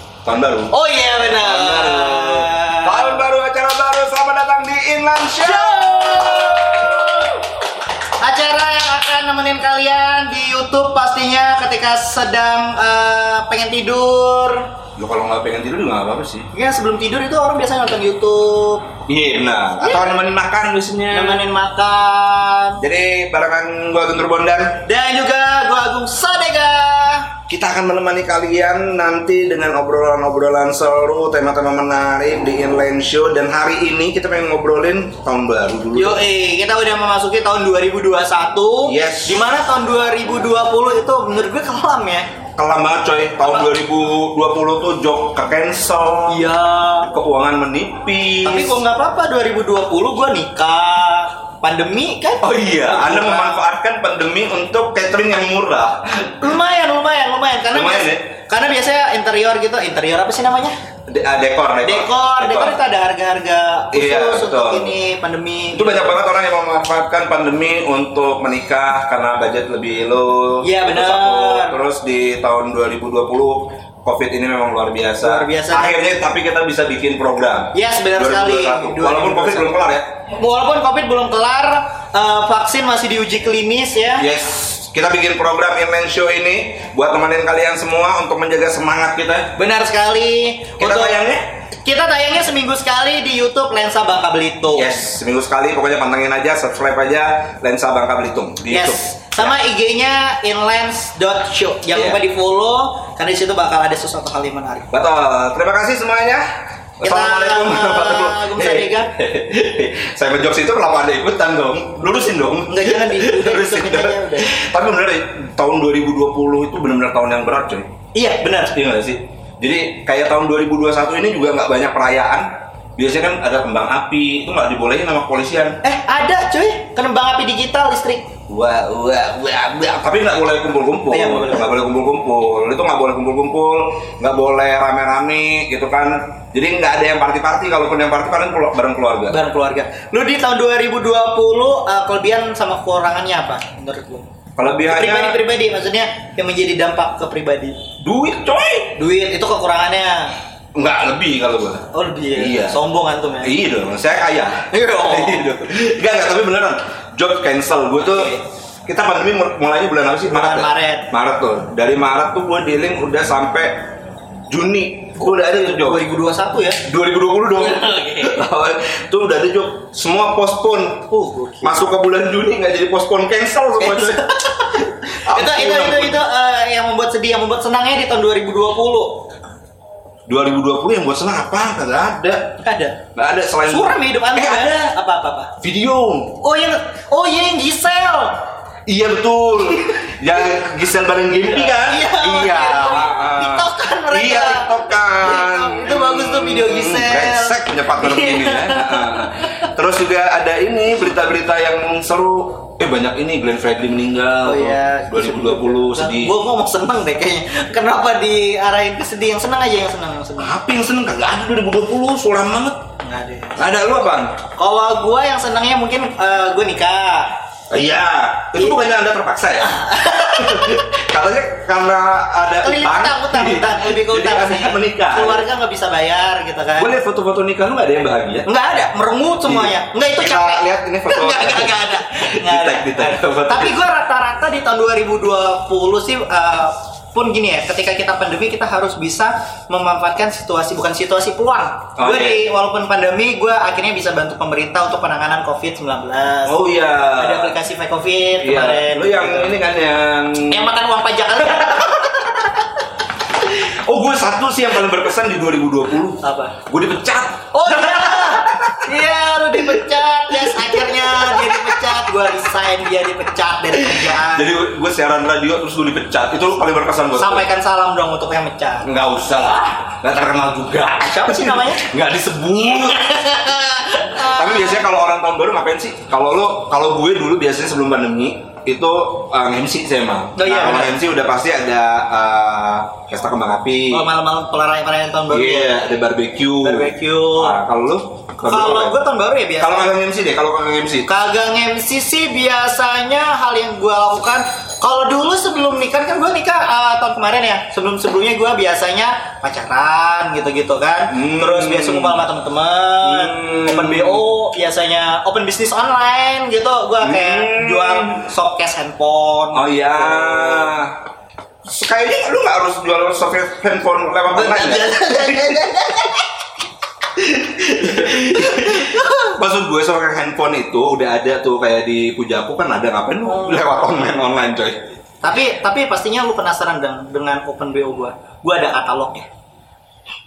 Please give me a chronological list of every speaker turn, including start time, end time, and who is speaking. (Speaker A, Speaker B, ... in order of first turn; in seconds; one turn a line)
Speaker A: 0.2-0.8
Speaker B: 0.7-3.2
Speaker A: 1.3-7.3
Speaker B: 5.4-7.4
Speaker B: 8.2-14.7
Speaker A: 15.0-16.5
Speaker B: 16.5-19.0
Speaker A: 19.1-21.5
Speaker B: 19.8-20.3
Speaker B: 21.1-22.8
Speaker A: 22.8-24.8
Speaker B: 24.8-27.3
Speaker A: 27.5-36.2
Speaker B: 35.9-42.3
Speaker A: 38.8-39.4
Speaker A: 42.6-46.5
Speaker B: 43.4-43.7
Speaker B: 46.3-47.1
Speaker A: 47.0-48.8
Speaker B: 48.4-53.6
Speaker A: 52.4-56.4
Speaker B: 56.3-60.7
Speaker A: 57.7-58.2
Speaker A: 61.1-62.8
Speaker B: 61.8-66.2
Speaker A: 63.9-64.9
Speaker A: 65.7-80.1
Speaker B: 70.6-71.8
Speaker B: 75.2-76.1
Speaker B: 77.7-79.7
Speaker B: 80.3-84.3
Speaker A: 84.2-89.5
Speaker B: 89.5-91.2
Speaker A: 90.8-91.4
Speaker B: 91.8-95.0
Speaker A: 94.7-99.5
Speaker B: 98.7-104.9
Speaker A: 101.9-102.2
Speaker A: 104.9-106.5
Speaker A: 107.0-117.9
Speaker B: 107.0-109.1
Speaker B: 112.7-114.5
Speaker B: 118.1-118.7
Speaker A: 118.4-125.8
Speaker B: 125.8-128.3
Speaker A: 128.5-139.4
Speaker B: 131.1-131.7
Speaker B: 139.3-144.3
Speaker A: 144.6-145.4
Speaker B: 144.9-147.8
Speaker A: 148.0-149.0
Speaker B: 148.9-150.3
Speaker A: 150.7-152.8
Speaker B: 151.9-153.6
Speaker A: 153.4-158.3
Speaker B: 154.7-155.5
Speaker B: 158.0-158.4
Speaker A: 158.8-163.9
Speaker B: 160.3-161.1
Speaker A: 164.5-166.1
Speaker B: 165.2-166.8
Speaker A: 166.8-171.1
Speaker B: 167.5-168.4
Speaker B: 171.1-171.9
Speaker A: 171.6-174.2
Speaker B: 173.8-179.2
Speaker A: 175.2-176.2
Speaker A: 180.3-182.6
Speaker B: 182.6-183.0
Speaker A: 183.1-184.9
Speaker B: 183.6-185.5
Speaker A: 185.6-186.4
Speaker B: 186.4-188.3
Speaker A: 188.8-206.3
Speaker B: 191.4-199.7
Speaker B: 204.4-210.6
Speaker A: 210.4-212.8
Speaker B: 213.0-213.6
Speaker A: 213.6-214.4
Speaker B: 214.6-217.3
Speaker A: 217.7-225.4
Speaker B: 219.6-220.8
Speaker B: 222.6-226.9
Speaker A: 226.8-228.5
Speaker B: 228.4-249.6
Speaker A: 229.4-233.8
Speaker A: 242.0-242.5
Speaker A: 246.5-247.6
Speaker A: 248.4-250.7
Speaker B: 250.5-252.6
Speaker A: 253.4-258.8
Speaker B: 256.2-256.6
Speaker B: 257.5-264.5
Speaker A: 260.3-261.6
Speaker A: 263.8-267.5
Speaker B: 267.1-268.9
Speaker A: 268.8-273.3
Speaker B: 271.0-271.8
Speaker B: 272.7-274.8
Speaker A: 274.1-284.1
Speaker B: 280.4-281.0
Speaker B: 283.9-285.8
Speaker A: 285.3-289.0
Speaker B: 286.6-287.6
Speaker B: 288.4-289.9
Speaker A: 289.6-291.1
Speaker B: 291.1-310.7
Speaker A: 301.1-302.2
Speaker A: 303.0-304.2
Speaker A: 307.0-308.2
Speaker A: 309.5-310.9
Speaker A: 311.6-315.8
Speaker B: 314.3-316.2
Speaker A: 317.2-324.8
Speaker B: 317.7-319.2
Speaker B: 325.2-329.2